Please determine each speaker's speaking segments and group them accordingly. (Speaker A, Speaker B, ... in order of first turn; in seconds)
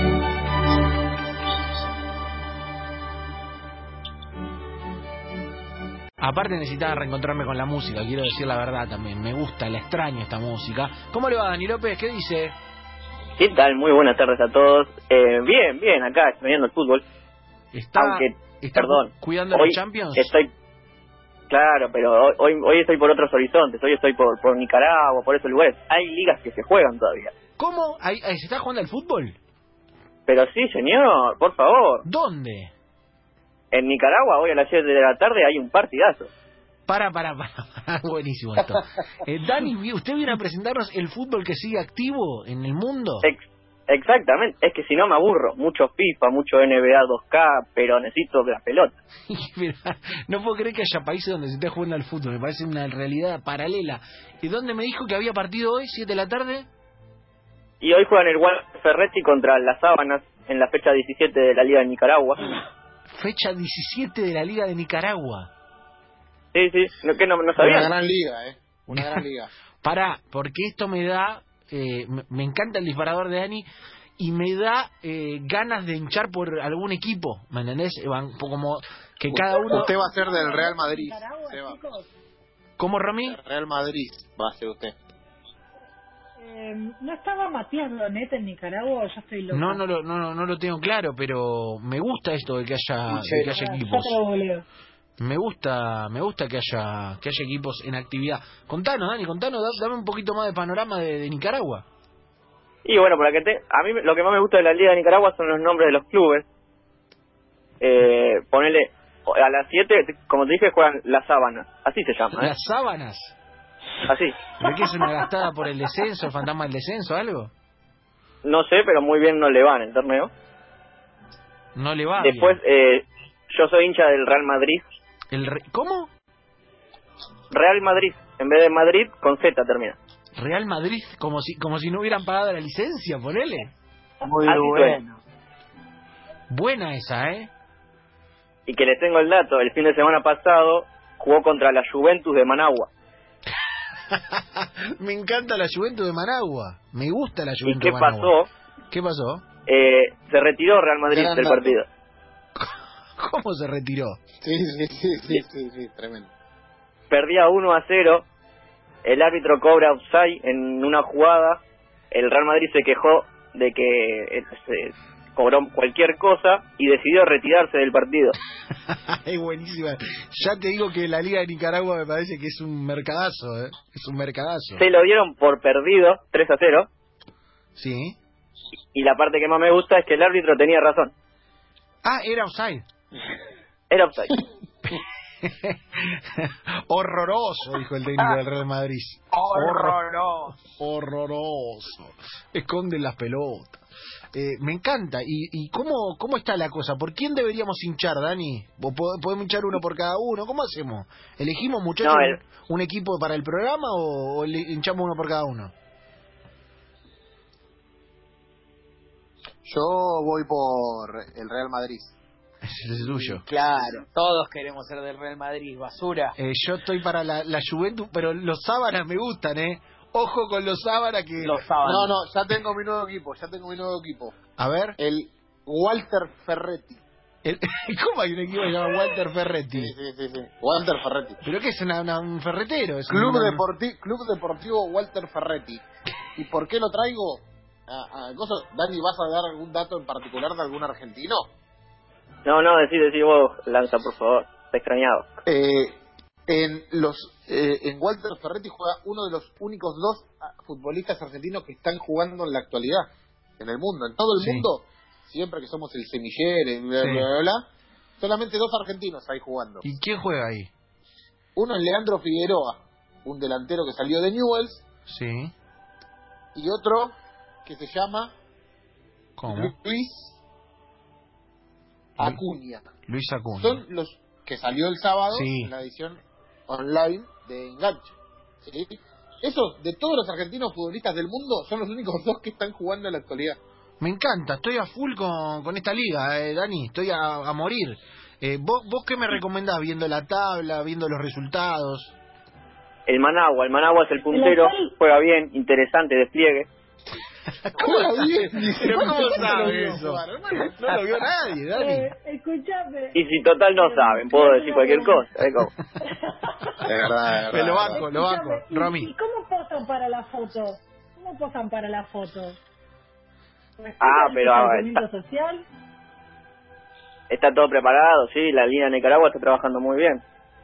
Speaker A: 6.2-12.6, 17.7-20.3, 27.6-29.4, 32.0-32.7, 36.9-43.3, 49.3-56.7, 63.1-65.5, 68.9-69.2, 69.8-73.7, 74.2-79.9, 82.8-83.4, 89.5-94.2, 95.2-101.8, 112.3-113.3, 114.6-117.5, 121.8-122.6, 125.3-126.1, 130.4-133.7, 136.5-137.5, 144.1-148.3, 148.9-149.4, 152.6-154.2, 168.9-174.8, 177.8-178.2, 182.0-182.8, 184.9-190.0, 190.6-193.8, 194.3-205.7, 212.6-213.4, 216.4-221.7, 224.6-225.0, 227.4-229.9, 231.4-233.6, 254.4-254.7, 257.0-257.3, 259.8-260.7, 265.1-265.5, 269.4-269.7, 273.1-273.8, 275.3-275.7, 284.0-292.1, 297.7-302.1, 307.5-309.1
Speaker B: 13.4-17.0, 18.0-20.5, 21.5-27.3, 30.3-32.0, 33.7-36.3, 43.2-49.0, 57.8-62.5, 66.5-67.9, 102.8-106.5, 107.8-112.5, 114.1-114.4, 118.4-120.3, 122.2-124.8, 127.5-130.0, 134.4-135.0, 138.7-142.9, 147.7-148.5, 149.7-151.9, 157.1-158.2, 159.0-161.6, 162.1-168.4, 174.8-176.9, 178.9-181.1, 183.9-184.4, 202.0-202.4, 242.4-245.3, 293.1-296.7, 303.1-305.7, 314.0-315.0, 317.3-320.2
Speaker C: 67.6-69.5, 79.3-81.8, 83.2-85.0, 151.1-151.8, 154.4-156.3, 209.7-212.2, 221.8-224.4, 225.0-227.0, 229.7-231.4, 233.1-235.8, 236.3-241.5, 245.4-246.0, 246.5-253.1, 253.6-257.6, 258.2-259.9, 261.6-264.9, 266.6-267.1, 267.6-268.3, 269.5-270.4, 272.2-272.9, 273.6-278.1, 278.6-283.6, 297.8-300.8, 306.8-308.1
Speaker D: 79.5-82.1, 86.4-89.8, 93.2-94.7, 294.3-294.9, 301.7-305.3, 306.0-306.9, 307.9-312.6, 313.8-315.6
Speaker E: 93.1-93.5, 134.2-135.2, 189.3-190.6, 213.4-216.3, 221.4-222.2